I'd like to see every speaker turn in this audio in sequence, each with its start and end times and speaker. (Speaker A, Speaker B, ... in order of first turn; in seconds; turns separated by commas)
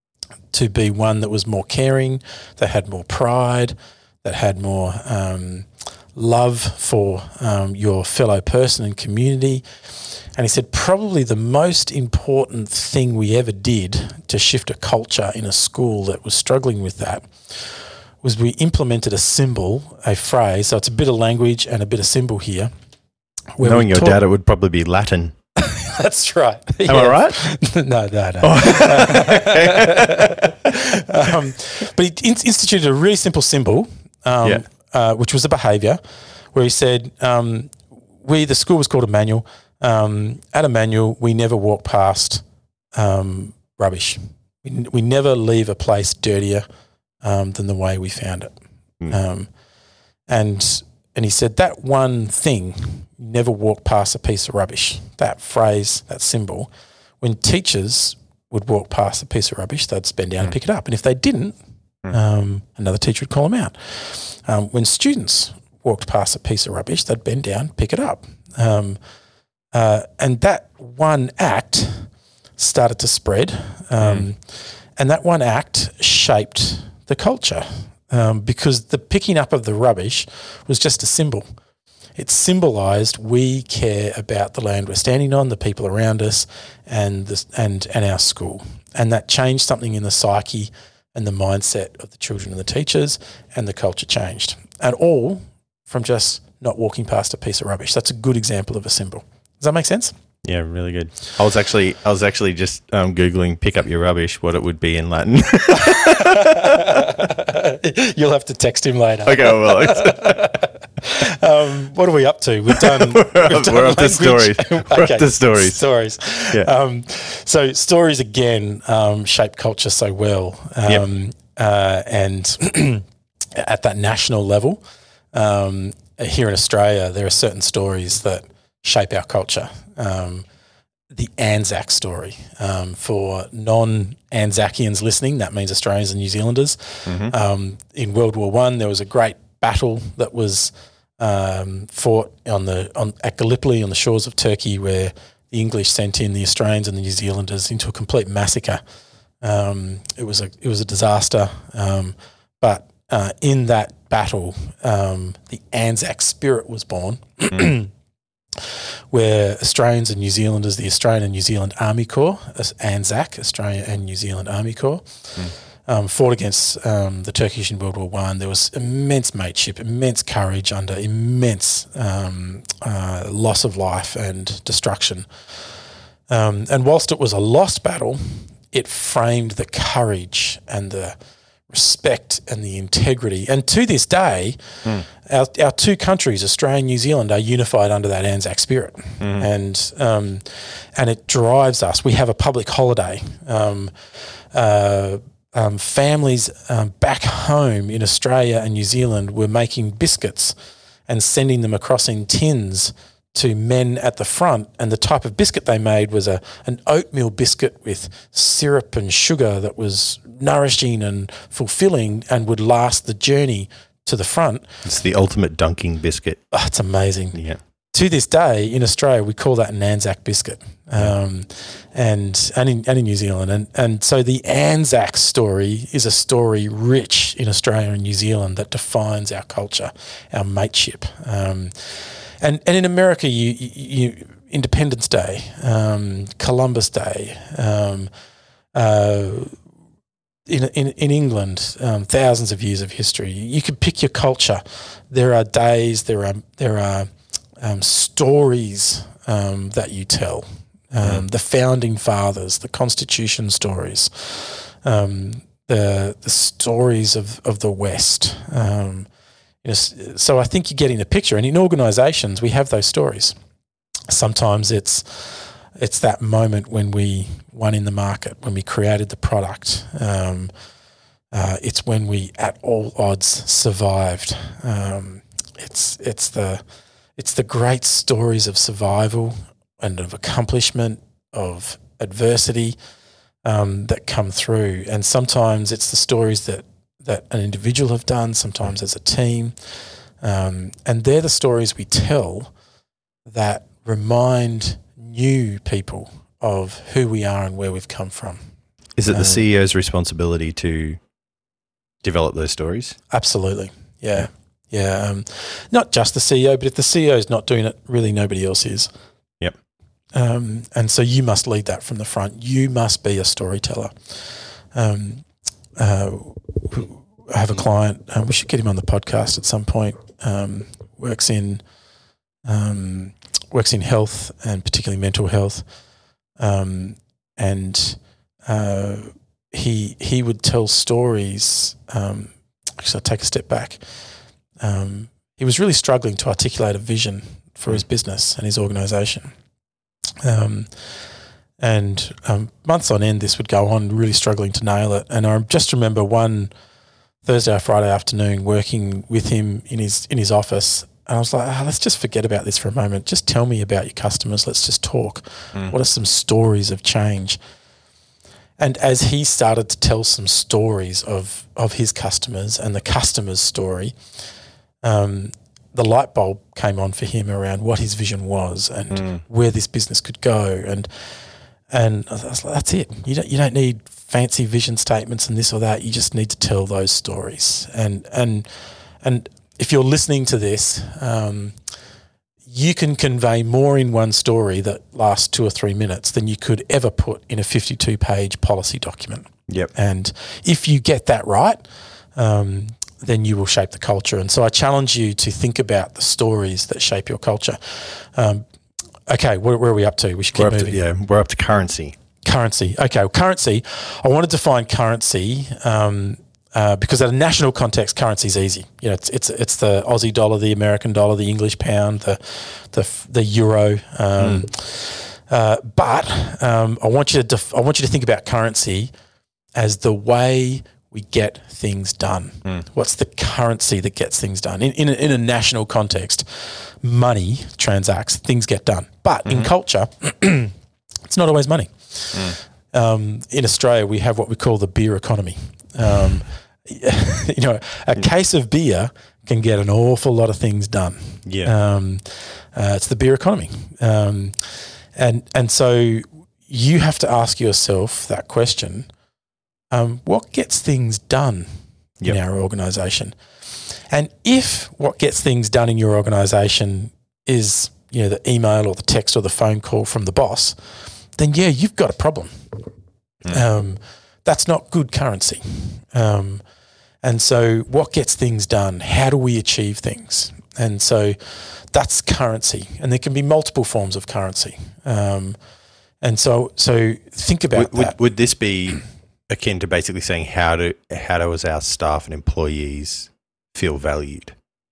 Speaker A: 0.5-9.6, Speaker A: 10.3-22.7, Speaker A: 23.6-24.2, Speaker B: 23.6-25.3, Speaker A: 25.6-36.0, Speaker B: 26.9-27.4, Speaker B: 28.4-30.5, Speaker A: 36.5-42.4, Speaker A: 42.9-46.6, Speaker A: 47.2-48.5, Speaker A: 49.1-49.5, Speaker A: 50.3-61.6, Speaker A: 62.1-69.0, Speaker A: 69.7-74.4, Speaker B: 74.0-74.3, Speaker A: 75.0-81.4, Speaker A: 82.2-100.1, Speaker B: 100.4-107.2, Speaker A: 105.8-124.8, Speaker B: 109.2-110.5, Speaker B: 112.7-115.8, Speaker A: 125.3-130.4, Speaker A: 131.1-148.8, Speaker B: 137.1-137.3, Speaker A: 149.4-157.9, Speaker A: 158.6-175.3, Speaker A: 176.3-181.2, Speaker A: 181.7-184.6, Speaker A: 185.2-200.5, Speaker B: 189.2-189.4, Speaker A: 201.1-214.7, Speaker B: 214.8-216.4, Speaker A: 216.5-217.4, Speaker B: 217.3-217.6, Speaker A: 217.9-238.1, Speaker A: 238.7-239.6, Speaker A: 240.5-259.1, Speaker A: 259.6-263.3, Speaker A: 264.1-270.5, Speaker A: 271.3-276.6, Speaker A: 277.2-282.8, Speaker A: 283.4-289.5, Speaker A: 290.2-292.5, Speaker A: 293.2-298.4, Speaker B: 299.0-301.0, Speaker A: 299.1-299.4, Speaker B: 302.0-303.0, Speaker A: 303.1-308.9, Speaker A: 310.1-315.2, Speaker A: 315.8-321.6, Speaker A: 322.4-325.6, Speaker A: 326.4-333.8, Speaker A: 334.6-339.3, Speaker A: 340.2-340.7, Speaker A: 341.6-346.5, Speaker A: 347.2-357.4, Speaker A: 358.6-363.9, Speaker A: 364.8-370.9, Speaker B: 368.9-369.2, Speaker A: 371.7-378.5, Speaker A: 379.0-381.6, Speaker A: 382.5-391.6, Speaker A: 392.1-398.4, Speaker A: 399.1-400.8, Speaker B: 400.4-402.0, Speaker A: 402.2-418.9, Speaker B: 414.2-414.4, Speaker A: 419.5-430.5, Speaker A: 431.1-448.9, Speaker B: 441.2-441.5, Speaker A: 449.7-451.5, Speaker A: 452.0-460.6, Speaker A: 461.2-462.4, Speaker A: 463.3-466.4, Speaker A: 467.0-475.4, Speaker A: 476.0-477.9, Speaker B: 477.5-484.4